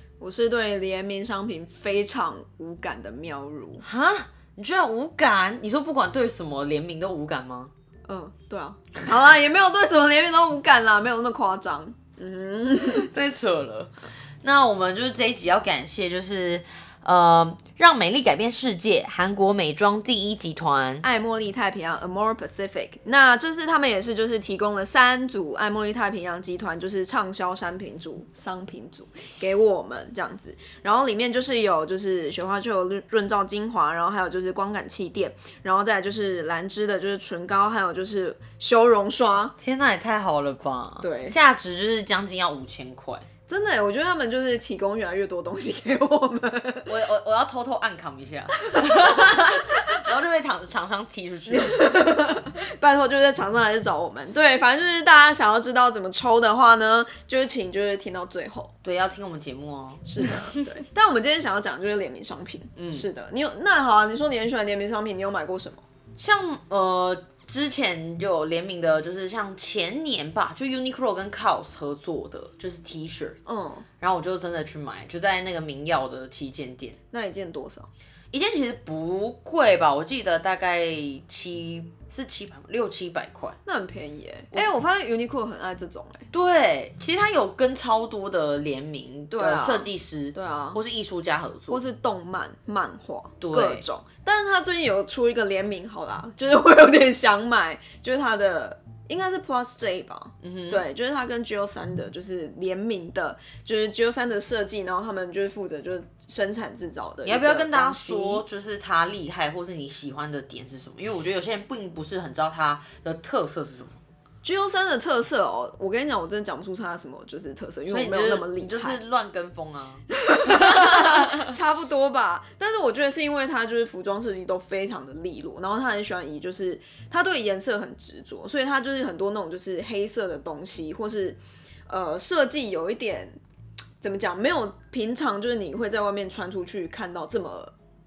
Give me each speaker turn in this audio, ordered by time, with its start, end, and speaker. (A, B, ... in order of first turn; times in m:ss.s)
0:00.2-0:03.8 A
0:03.8-0:07.7 B
0:08.1-0:13.1 A
0:12.8-0:21.0 B
0:21.0-0:39.5 A
0:39.6-0:43.2 B
0:41.0-0:41.4 A
0:43.5-0:46.9 A
0:46.8-0:52.1 B
0:48.7-0:50.0 A
0:51.5-0:58.7 A
0:58.8-1:00.8 B
1:00.0-1:05.8 A
1:02.8-1:03.1 B
1:06.2-1:13.4 B
1:13.4-1:13.8 A
1:14.0-1:17.0 B
1:17.1-1:17.9 A
1:18.3-1:23.6 B
1:23.6-1:26.3 A
1:26.3-1:31.8 B
1:29.3-1:30.8 A
1:31.7-1:48.4 A
1:33.4-1:33.8 B
1:40.4-1:40.8 B
1:47.2-1:54.0 B
1:54.4-1:59.0 A
1:57.9-2:01.5 B
2:00.1-2:13.3 A
2:14.0-2:17.7 A